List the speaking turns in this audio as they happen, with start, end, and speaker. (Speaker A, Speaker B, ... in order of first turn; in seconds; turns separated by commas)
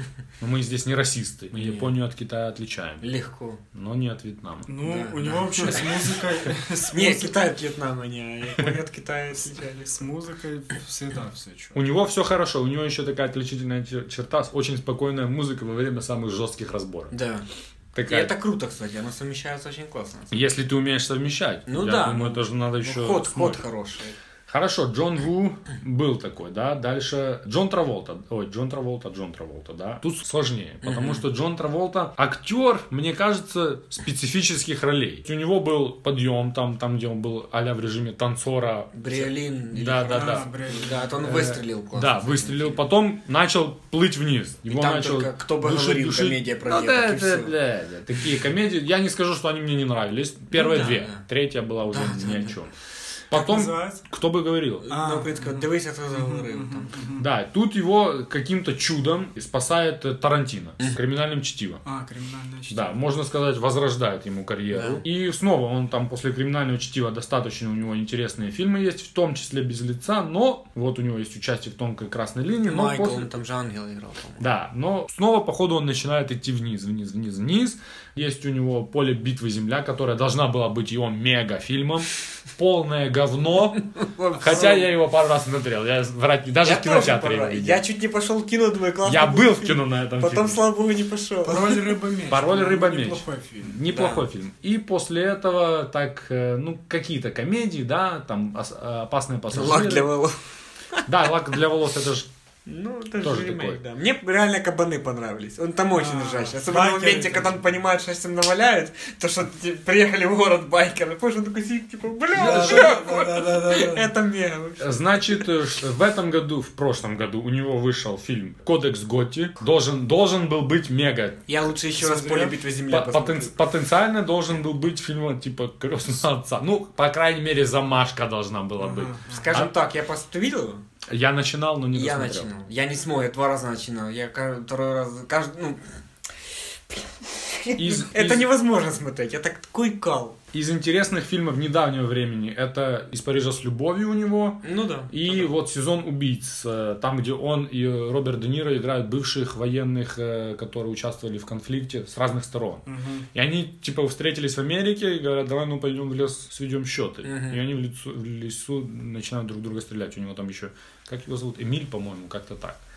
Speaker A: 0.4-3.1, Speaker B: 1.5-1.9, Speaker B: 3.0-3.6, Speaker A: 3.7-4.7, Speaker C: 4.7-7.3, Speaker B: 4.8-10.0, Speaker C: 9.8-11.8, Speaker A: 11.7-17.1, Speaker B: 17.1-17.4, Speaker A: 17.9-18.3, Speaker B: 18.1-20.4, Speaker A: 20.3-23.6, Speaker B: 21.7-24.1, Speaker A: 24.5-40.5, Speaker B: 30.8-31.2, Speaker B: 38.9-42.8, Speaker C: 40.1-41.0, Speaker A: 41.2-52.7, Speaker B: 44.7-47.5, Speaker B: 50.5-51.2, Speaker B: 51.8-52.6, Speaker A: 53.3-54.9, Speaker C: 53.3-54.0, Speaker B: 54.8-56.9, Speaker C: 54.9-57.3, Speaker A: 57.2-61.8, Speaker C: 61.8-62.9, Speaker A: 62.7-73.3, Speaker B: 64.7-65.0, Speaker B: 72.7-74.5, Speaker A: 74.4-87.8, Speaker B: 84.0-84.9, Speaker B: 86.5-91.9, Speaker A: 89.0-90.6, Speaker C: 91.4-93.8, Speaker A: 92.3-100.1, Speaker B: 93.8-94.2, Speaker B: 99.5-100.4, Speaker A: 101.0-102.3, Speaker B: 102.7-115.4, Speaker A: 103.2-103.8, Speaker C: 105.9-107.6, Speaker C: 112.3-114.1, Speaker A: 112.3-113.3, Speaker A: 114.8-121.5, Speaker B: 121.5-123.5, Speaker C: 122.0-122.6, Speaker A: 122.9-129.7, Speaker C: 128.8-129.6, Speaker B: 129.3-130.8, Speaker A: 131.1-132.5, Speaker B: 131.9-135.8, Speaker B: 136.9-140.4, Speaker A: 137.8-138.5, Speaker A: 140.5-162.8, Speaker B: 144.6-145.5, Speaker C: 152.9-153.2, Speaker B: 157.2-157.6